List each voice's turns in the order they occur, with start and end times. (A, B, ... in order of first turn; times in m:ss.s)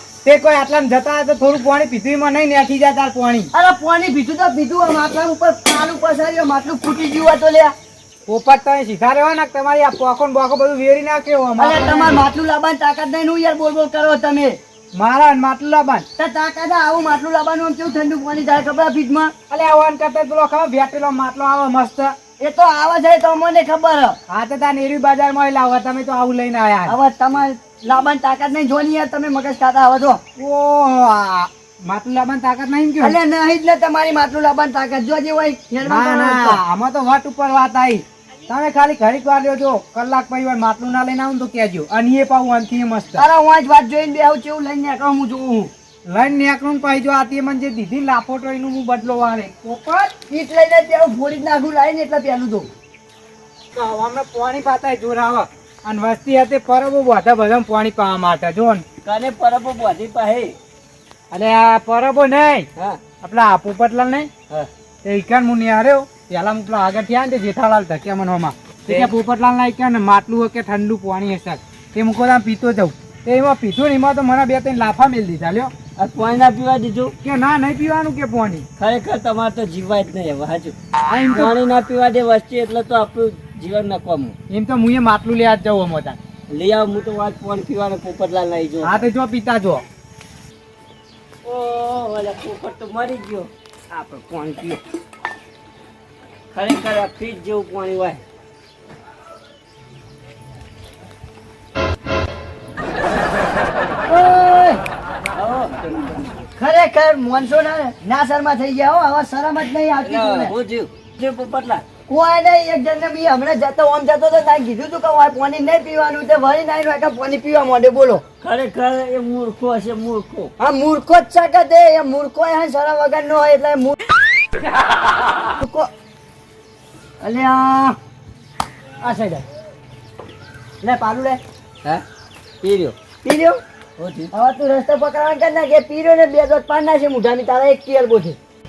0:00.2-0:03.5 A
0:03.5-0:07.7 B
0:08.3-0:12.2 A
0:11.6-0:14.6 B
0:14.9-0:16.1 A
0:16.2-0:19.3 B
0:19.5-0:22.2 A
0:22.4-0:24.2 B
0:24.3-0:26.9 A
0:26.9-0:30.2 B
0:30.4-0:33.2 A
0:33.0-0:36.6 B
0:35.8-0:43.2 A
0:43.2-0:45.7 B
0:46.1-0:50.2 A
0:50.3-0:52.7 B
0:53.7-0:58.8 A
0:59.0-1:00.6 C
1:01.3-1:04.3 A
1:02.8-1:03.1 C
1:05.0-1:15.7 A
1:16.0-1:17.1 C
1:17.2-1:18.7 A
1:18.8-1:20.8 C
1:21.1-1:21.6 A
1:21.3-1:24.4 C
1:24.5-1:26.2 A
1:26.5-1:29.1 C
1:28.8-1:29.8 A
1:31.4-1:34.8 C
1:36.5-1:38.2 C
1:44.1-1:44.8 B
1:45.3-1:46.3 C
1:46.6-1:50.6 B
1:50.0-1:51.9 C
1:52.1-1:58.2 B
1:58.4-2:00.5 C
2:00.6-2:04.0 B
2:05.6-2:05.9 B
2:07.2-2:08.0 B
2:09.0-2:09.5 B
2:10.8-2:11.4 B
2:12.6-2:13.0 C
2:13.2-2:13.6 B
2:14.0-2:14.3 C
2:14.3-2:18.4 B